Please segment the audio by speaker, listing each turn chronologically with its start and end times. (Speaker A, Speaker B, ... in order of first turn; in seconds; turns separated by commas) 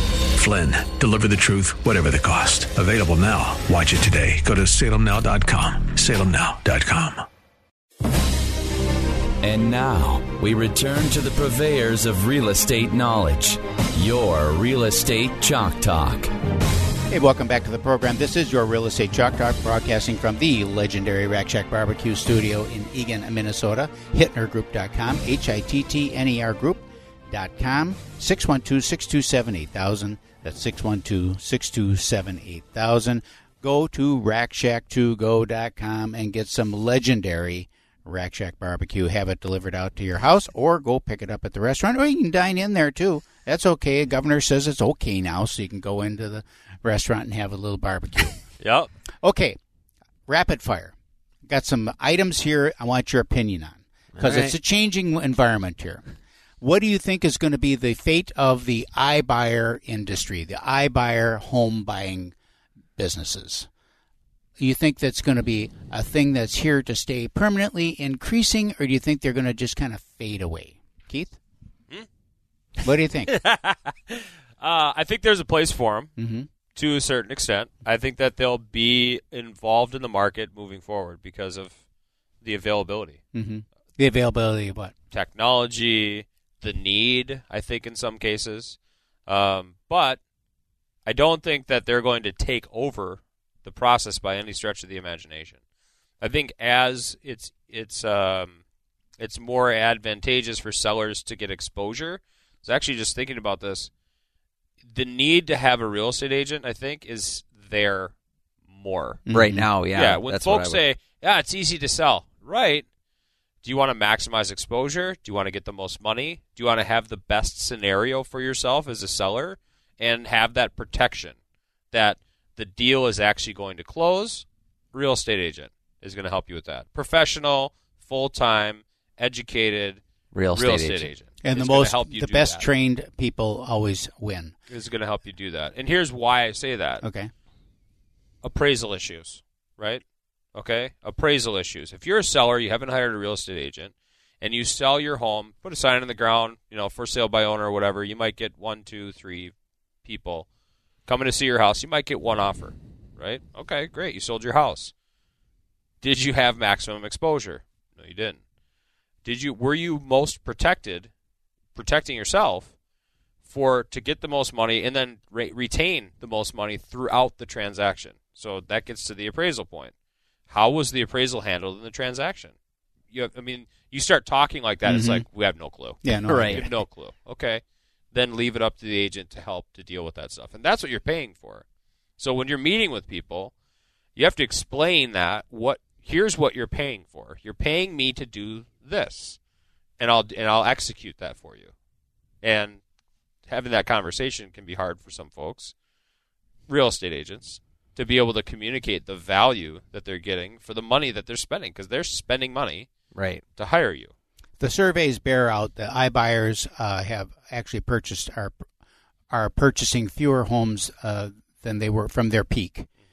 Speaker A: 0.3-7.2, Speaker B: 9.4-16.3, Speaker C: 17.1-48.4, Speaker D: 48.6-48.9, Speaker C: 49.2-49.6, Speaker C: 50.3-51.0, Speaker C: 51.5-56.0, Speaker E: 54.2-54.5, Speaker C: 56.6-62.4, Speaker C: 63.0-63.7, Speaker C: 64.6-71.4, Speaker C: 72.8-73.3, Speaker D: 73.3-76.1, Speaker C: 76.2-76.5, Speaker D: 76.7-81.7, Speaker D: 82.4-83.2, Speaker C: 83.3-84.9, Speaker D: 85.1-90.2, Speaker D: 91.0-95.6, Speaker D: 96.2-98.6, Speaker D: 99.2-103.9, Speaker D: 104.9-108.1, Speaker D: 108.7-109.2, Speaker C: 109.3-109.7, Speaker E: 109.3-110.8, Speaker D: 109.9-112.9, Speaker D: 113.6-121.4, Speaker D: 121.9-132.7, Speaker E: 130.3-131.1, Speaker C: 131.4-134.6, Speaker D: 134.7-137.0, Speaker C: 137.0-137.3, Speaker D: 138.4-140.0, Speaker D: 140.6-149.5, Speaker D: 150.1-150.5, Speaker D: 151.1-154.9, Speaker D: 156.0-158.4, Speaker D: 159.2-161.1, Speaker D: 161.8-162.7, Speaker D: 163.4-169.9, Speaker D: 170.5-172.5, Speaker D: 173.1-181.6, Speaker C: 174.8-175.2, Speaker C: 176.0-176.7, Speaker E: 176.3-176.7, Speaker D: 182.2-183.5, Speaker D: 184.2-189.4, Speaker D: 190.0-191.7, Speaker D: 192.4-192.8, Speaker D: 193.5-195.7, Speaker D: 196.7-202.9, Speaker E: 203.1-203.4, Speaker D: 203.6-204.1, Speaker C: 204.6-208.6, Speaker C: 209.3-212.9